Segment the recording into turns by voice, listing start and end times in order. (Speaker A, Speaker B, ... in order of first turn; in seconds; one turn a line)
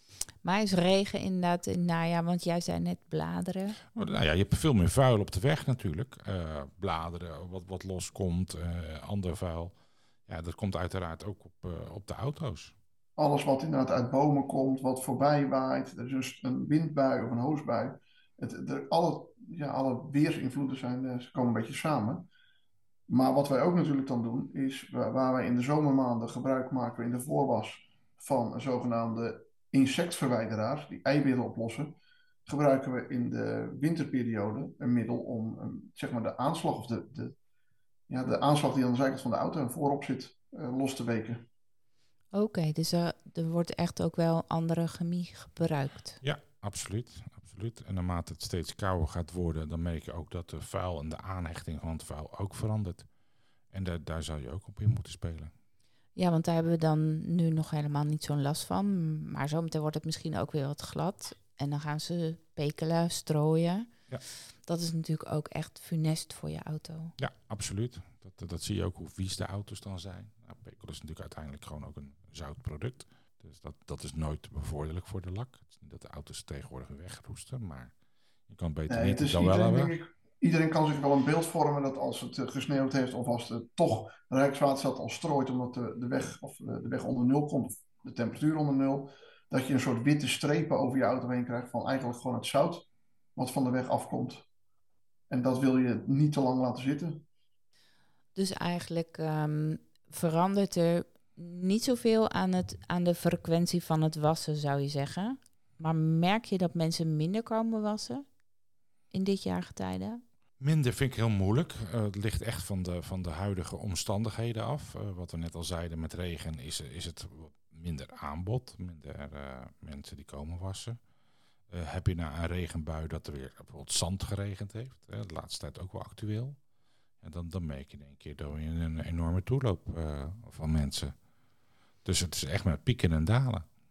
Speaker A: 0.4-3.8
Speaker B: 3.9-12.7
Speaker C: 13.2-22.3
Speaker C: 23.1-31.9
Speaker C: 32.5-37.4
Speaker C: 38.1-41.5
Speaker A: 42.3-46.2
Speaker B: 46.2-53.1
Speaker B: 53.7-55.5
Speaker A: 56.2-63.9
Speaker A: 64.7-67.2
Speaker B: 67.2-78.0
Speaker B: 78.5-80.0
Speaker C: 78.9-94.5
Speaker C: 95.3-97.2
Speaker A: 98.4-108.3
Speaker A: 109.1-110.2
Speaker B: 110.6-121.0
Speaker B: 121.7-126.6
Speaker B: 127.2-131.2
Speaker B: 132.1-133.7